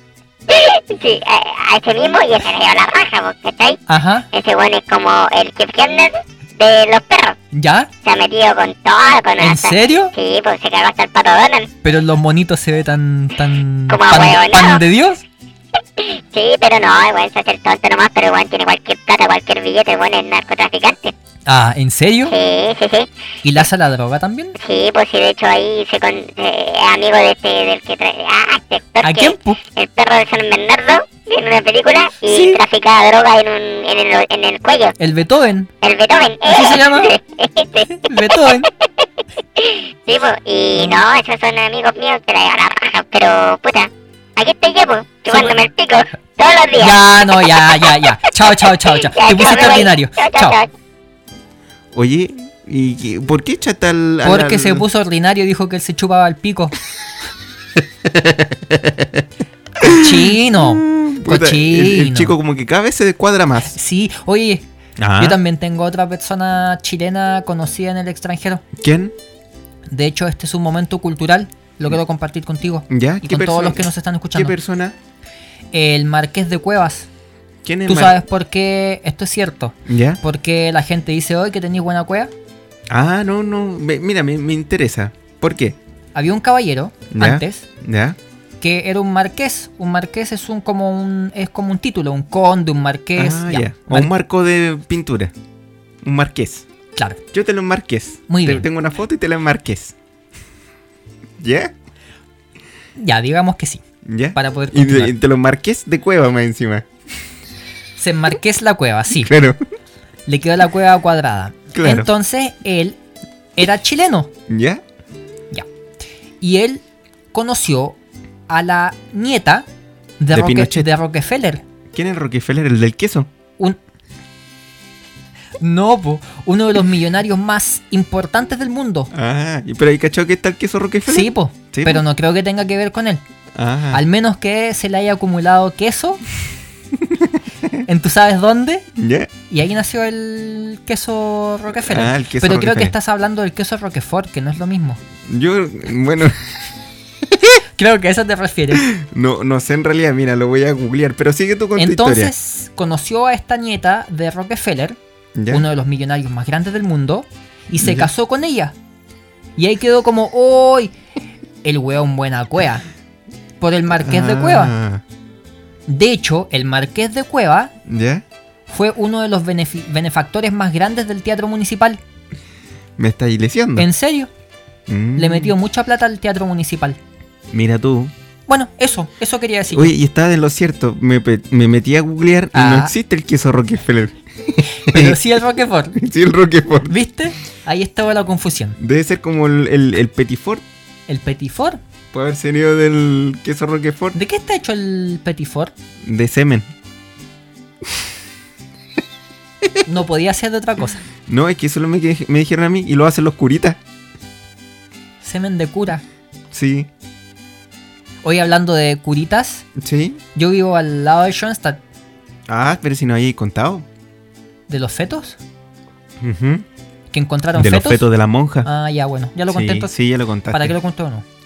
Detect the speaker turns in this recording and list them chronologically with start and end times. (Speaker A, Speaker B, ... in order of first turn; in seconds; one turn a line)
Speaker A: 0.5-3.8
Speaker B: 3.9-4.3
Speaker A: 4.3-7.4
Speaker B: 7.5-7.9
Speaker A: 8.0-11.7
Speaker B: 9.4-10.1
Speaker B: 11.8-15.2
Speaker A: 13.9-14.8
Speaker A: 16.0-21.1
Speaker B: 21.4-22.3
Speaker A: 22.3-23.1
Speaker B: 23.4-24.6
Speaker A: 24.6-34.9
Speaker B: 29.0-29.6
Speaker B: 32.2-32.6
Speaker B: 35.0-35.7
Speaker A: 35.8-38.9
Speaker B: 36.5-37.2
Speaker B: 37.9-38.7
Speaker A: 39.6-47.3
Speaker B: 46.8-50.6
Speaker A: 48.9-50.7
Speaker C: 51.9-54.9
Speaker B: 54.2-56.8
Speaker C: 58.0-59.2
Speaker C: 59.8-63.7
Speaker B: 59.8-62.3
Speaker B: 63.7-64.6
Speaker C: 65.0-65.4
Speaker B: 65.2-68.6
Speaker C: 68.8-69.1
Speaker B: 69.9-74.5
Speaker C: 72.9-74.9
Speaker B: 75.7-77.1
Speaker C: 77.6-78.2
Speaker B: 77.9-82.3
Speaker C: 79.9-80.2
Speaker C: 82.9-85.8
Speaker B: 86.1-87.6
Speaker C: 87.1-88.2
Speaker B: 88.6-94.1
Speaker C: 93.2-95.3
Speaker C: 96.0-96.7
Speaker C: 97.3-99.9
Speaker B: 98.3-98.6
Speaker C: 101.4-101.7
Speaker B: 103.0-103.8
Speaker C: 104.0-106.8
Speaker B: 104.3-105.1
Speaker B: 108.0-109.3
Speaker C: 109.2-109.6
Speaker B: 110.3-113.0
Speaker C: 111.7-112.1
Speaker B: 113.5-114.3
Speaker C: 114.5-114.8
Speaker B: 116.4-118.0
Speaker B: 118.5-119.7
Speaker B: 120.2-121.6
Speaker C: 120.3-120.9
Speaker C: 121.9-123.3
Speaker B: 125.6-129.1
Speaker C: 129.1-132.0
Speaker B: 131.1-133.2
Speaker C: 133.5-134.0
Speaker B: 133.9-136.2
Speaker C: 137.0-137.4
Speaker B: 137.8-138.8
Speaker C: 138.9-139.3
Speaker B: 139.5-145.0
Speaker C: 141.8-142.9
Speaker C: 145.2-146.6
Speaker B: 147.7-148.9
Speaker C: 148.7-152.3
Speaker B: 151.8-155.0
Speaker C: 155.3-155.7
Speaker B: 155.5-158.7
Speaker C: 157.8-158.1
Speaker B: 159.6-160.9
Speaker B: 161.6-162.8
Speaker B: 163.6-164.7
Speaker C: 164.0-165.0
Speaker B: 165.9-167.7
Speaker C: 167.8-168.2
Speaker B: 168.7-172.0
Speaker C: 173.0-173.9
Speaker B: 173.8-174.3
Speaker C: 174.9-175.5
Speaker B: 175.2-177.0
Speaker C: 177.5-178.1
Speaker B: 178.5-179.9
Speaker C: 179.7-185.2
Speaker B: 182.5-182.9
Speaker B: 184.8-186.0
Speaker C: 185.9-187.0
Speaker B: 186.8-188.8
Speaker C: 188.8-190.7
Speaker B: 191.1-191.8
Speaker C: 192.1-194.2
Speaker B: 194.1-195.7
Speaker C: 196.0-196.7
Speaker B: 199.8-201.0
Speaker C: 201.2-203.8
Speaker B: 205.2-206.0
Speaker C: 206.5-206.9
Speaker B: 208.2-209.6
Speaker C: 209.8-210.2
Speaker B: 210.3-211.8
Speaker C: 212.5-213.9
Speaker B: 214.7-215.4
Speaker C: 216.2-216.7
Speaker B: 217.1-218.0
Speaker C: 217.5-218.7
Speaker B: 218.6-219.9
Speaker C: 219.5-220.7
Speaker B: 220.5-221.2